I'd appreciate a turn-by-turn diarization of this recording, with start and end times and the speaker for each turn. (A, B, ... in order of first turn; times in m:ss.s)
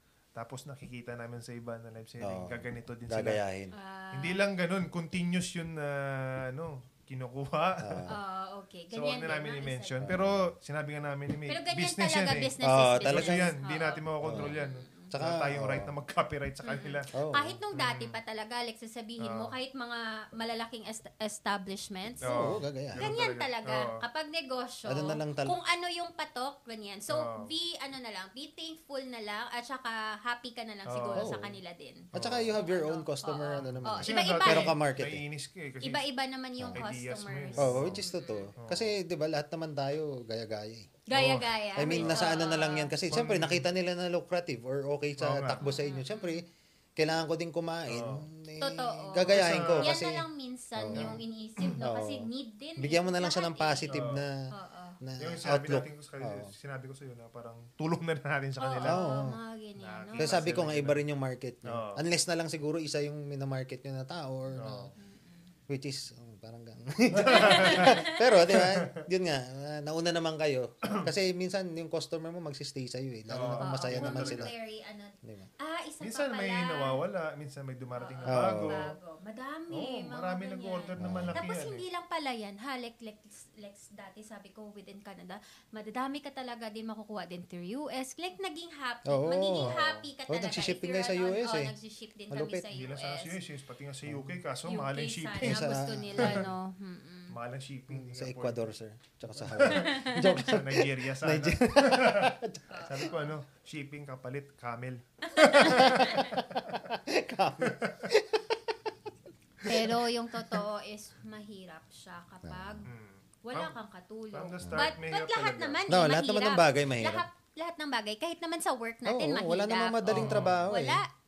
0:00.4-0:03.4 A
0:02.2-0:03.8 B
0:03.7-0:04.4 C
0:04.1-0:08.1 A
0:07.8-0:08.2 B
0:08.1-0:10.2 C
0:08.9-0:17.1 A
0:10.0-0:10.5 B
0:11.5-0:15.1 C
0:12.6-0:13.6 B
0:14.2-0:14.5 B
0:15.1-0:15.9 B
0:16.6-0:34.8 C
0:17.1-0:17.6 B
0:17.7-0:18.2 A
0:19.2-0:19.6 A
0:22.2-0:24.0 A
0:22.3-0:23.0 B
0:24.9-0:25.6 B
0:27.1-0:27.5 A
0:30.9-0:31.4 A
0:31.2-0:31.6 B
0:32.1-0:32.6 A
0:32.1-0:35.2 B
0:33.7-0:36.0 A
0:35.8-0:38.5 C
0:36.6-0:36.8 B
0:36.7-0:38.0 A
0:37.6-0:41.0 B
0:38.6-0:39.0 A
0:41.1-0:42.9 C
0:41.1-0:42.3 A
0:41.8-0:50.2 B
0:43.1-0:43.7 A
0:45.2-0:45.7 A
0:45.6-0:46.4 C
0:47.9-0:48.3 A
0:48.6-0:54.0 C
0:49.3-0:50.0 A
0:50.8-0:51.2 B
0:50.9-0:51.8 A
0:51.8-0:54.5 B
0:53.9-0:54.3 A
0:54.5-0:55.0 C
0:55.0-0:56.5 B
0:55.2-0:59.1 A
0:58.6-1:00.5 C
0:58.8-0:59.4 B
0:59.8-1:01.0 A
1:00.2-1:04.9 B
1:01.6-1:02.0 A
1:04.6-1:05.0 A
1:05.0-1:05.5 C
1:05.7-1:14.5 B
1:07.1-1:09.0 A
1:07.2-1:08.2 C
1:13.3-1:14.5 A
1:13.6-1:17.0 C
1:16.0-1:18.9 A
1:18.0-1:33.4 C
1:18.3-1:18.8 B
1:19.7-1:21.8 A
1:21.0-1:21.4 B
1:29.1-1:31.7 B
1:29.6-1:30.1 A
1:32.3-1:32.7 B
1:32.7-1:36.5 A
1:34.1-1:34.4 B
1:34.6-1:37.4 C
1:35.4-1:36.5 B
1:37.3-1:38.7 A
1:37.9-1:43.1 B
1:39.4-1:46.9 A
1:39.6-1:40.5 C
1:42.7-1:43.3 C
1:45.3-1:46.4 C
1:45.6-1:48.9 B
1:47.6-1:48.0 A
1:49.6-1:52.9 C
1:49.6-1:50.1 B
1:52.4-1:52.9 B
1:52.9-1:53.8 A
1:53.4-2:01.1 C
1:54.3-1:55.9 A
1:54.6-1:54.9 B
1:55.9-1:57.3 B
1:59.0-2:01.0 B
2:00.1-2:00.7 A